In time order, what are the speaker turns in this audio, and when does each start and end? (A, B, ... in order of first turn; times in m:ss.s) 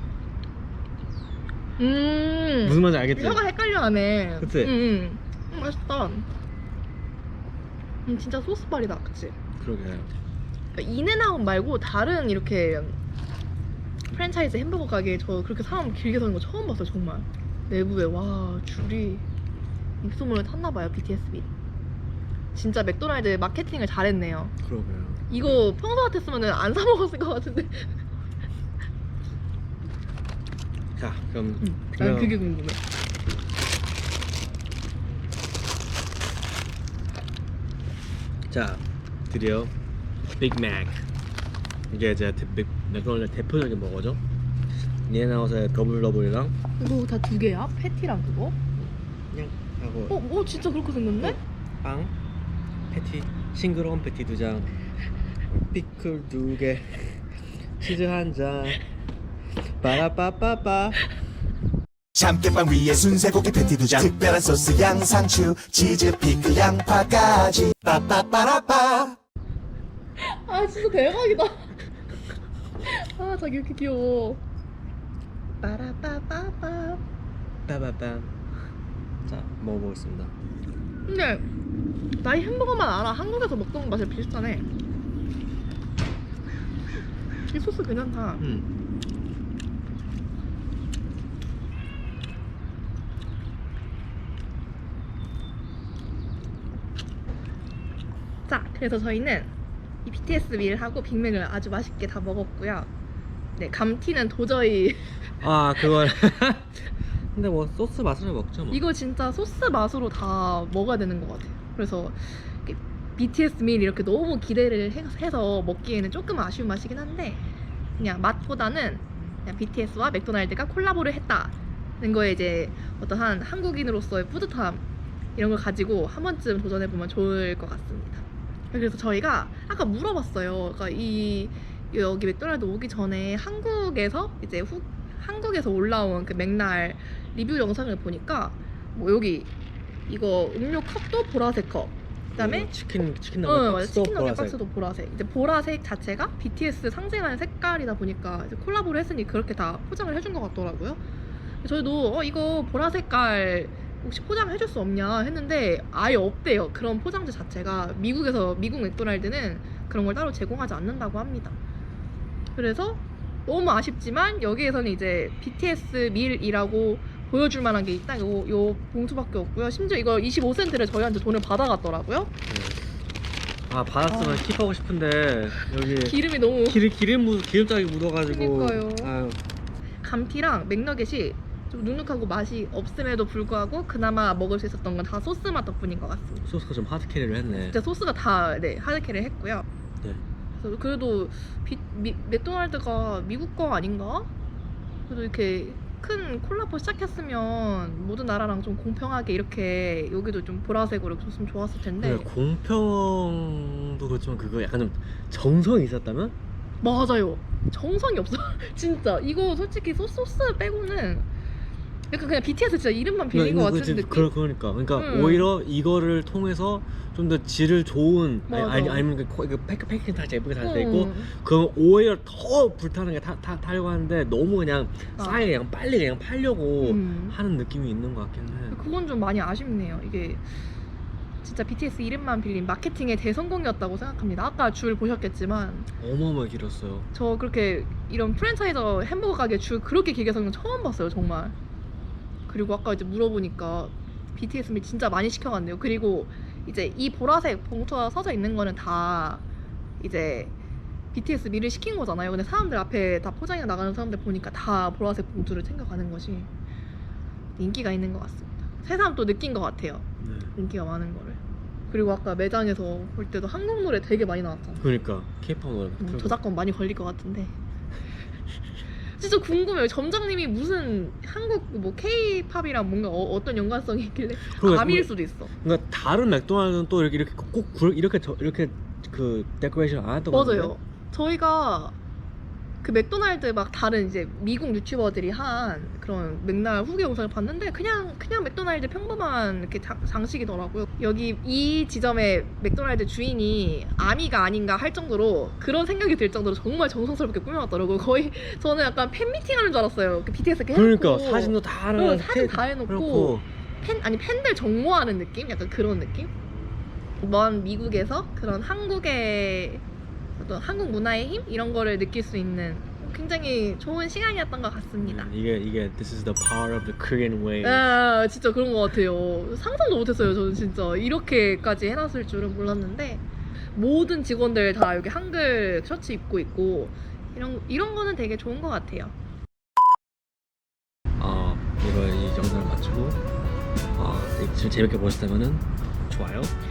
0:01.8-0:06.3 A
0:02.6-0:03.4 B
0:04.4-0:04.8 B
0:08.0-0:09.4 A
0:09.6-0:10.1 B
0:10.7-0:13.0 A
0:14.1-0:19.2 A
0:20.0-0:21.5 A
0:22.5-0:24.5 A
0:24.6-0:25.4 B
0:25.3-0:28.0 A
0:31.0-0:32.3 B
0:31.6-0:32.8 A
0:38.5-0:39.7 B
0:40.2-0:41.0 B
0:41.9-0:44.2 B
0:45.0-0:46.6 B
0:46.8-0:48.6 A
0:48.8-0:50.2 B
0:50.1-0:51.4 A
0:51.2-0:52.1 B
0:52.9-0:54.7 B
0:55.5-0:57.2 B
0:57.8-0:58.8 B
0:59.8-1:01.0 B
1:02.2-1:09.2 C
1:10.2-1:11.7 A
1:12.8-1:14.4 A
1:15.6-1:17.0 A
1:17.7-1:18.4 B
1:19.2-1:20.3 B
1:21.1-1:21.4 A
1:22.2-1:24.7 A
1:27.5-1:28.4 A
1:28.4-1:28.6 B
1:38.5-1:39.5 A
1:40.0-1:42.9 A
1:43.6-1:45.2 A
1:45.4-1:48.8 B
1:48.7-1:57.4 A
1:58.0-2:04.8 A
2:05.4-2:19.5 A
2:20.1-2:22.7 A
2:22.4-2:24.6 B
2:23.4-2:31.0 A
2:31.6-2:41.6 A
2:42.6-2:52.3 A
2:52.5-2:52.8 B
2:53.7-2:59.4 B
2:54.1-2:54.4 A
2:56.0-2:56.8 A
2:58.3-2:59.1 A
3:00.0-3:06.5 A
3:06.4-3:07.8 B
3:07.5-3:09.6 A
3:10.6-3:14.3 A
3:15.1-3:22.3 A
3:22.0-3:26.3 B
3:26.8-3:31.3 A
3:32.1-3:34.3 A
3:33.3-3:48.8 B
3:35.0-3:35.5 A
3:38.5-3:39.1 A
3:40.6-3:41.3 A
3:45.2-3:45.4 A
3:46.8-3:47.4 A
3:48.7-3:50.4 A
3:51.4-3:55.9 A
3:56.0-3:57.1 B
3:57.1-4:01.5 A
4:02.5-4:09.4 A
4:10.0-4:10.5 A
4:11.1-4:16.5 A
4:17.6-4:21.4 A
4:20.2-4:20.5 B
4:21.9-4:24.9 A
4:24.8-4:26.4 B
4:26.0-4:27.5 A
4:29.2-4:35.5 A
4:34.4-4:35.1 B
4:35.6-4:40.7 B
4:40.3-4:41.9 A
4:42.8-5:06.3 A
5:00.7-5:03.4 B
5:07.2-5:09.8 A
5:10.4-5:15.3 A
5:15.0-5:17.9 B
5:17.6-5:23.2 A
5:23.7-5:29.1 A
5:31.2-5:33.2 B
5:33.9-5:36.5 B